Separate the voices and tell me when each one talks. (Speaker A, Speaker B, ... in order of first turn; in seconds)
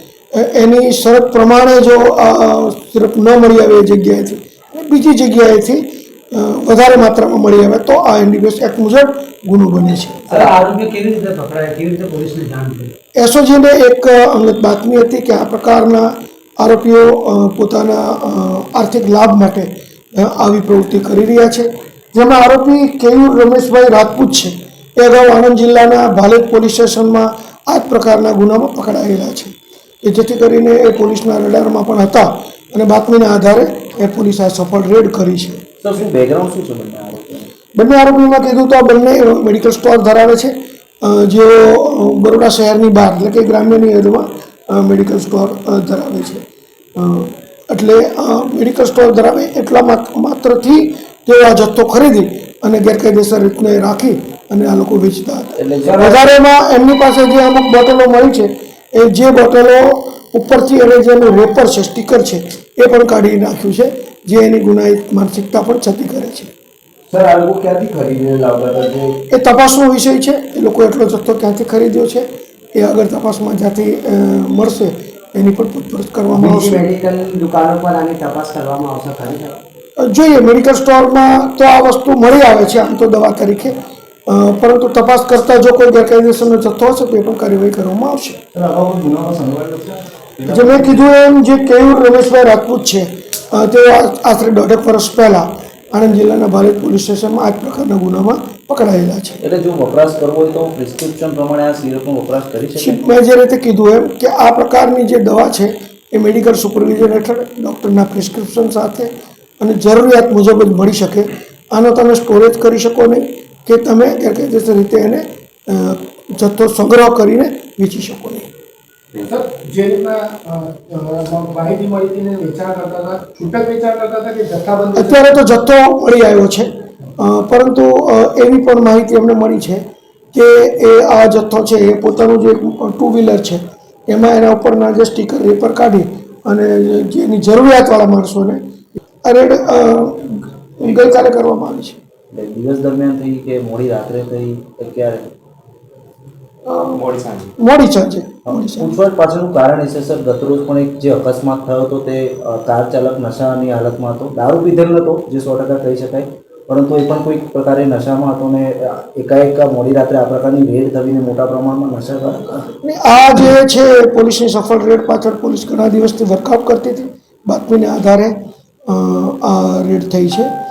Speaker A: 0.3-10.4, 13.2-35.6, 37.8-46.4, 47.0-66.5, 69.3-76.8, 80.0-88.4, 90.5-99.4, 102.8-118.5, 125.0-138.6, 139.2-142.0, 146.7-147.1, 147.6-149.0, 162.8-168.4, 168.9-170.5
Speaker B: 10.3-10.6, 35.8-37.5, 55.6-56.2, 67.1-69.2, 76.4-76.8, 88.5-91.0, 99.4-103.0, 142.3-145.3, 147.1-147.4, 148.5-162.7
Speaker C: 10.4-12.3, 76.4-79.6
Speaker D: 119.2-125.2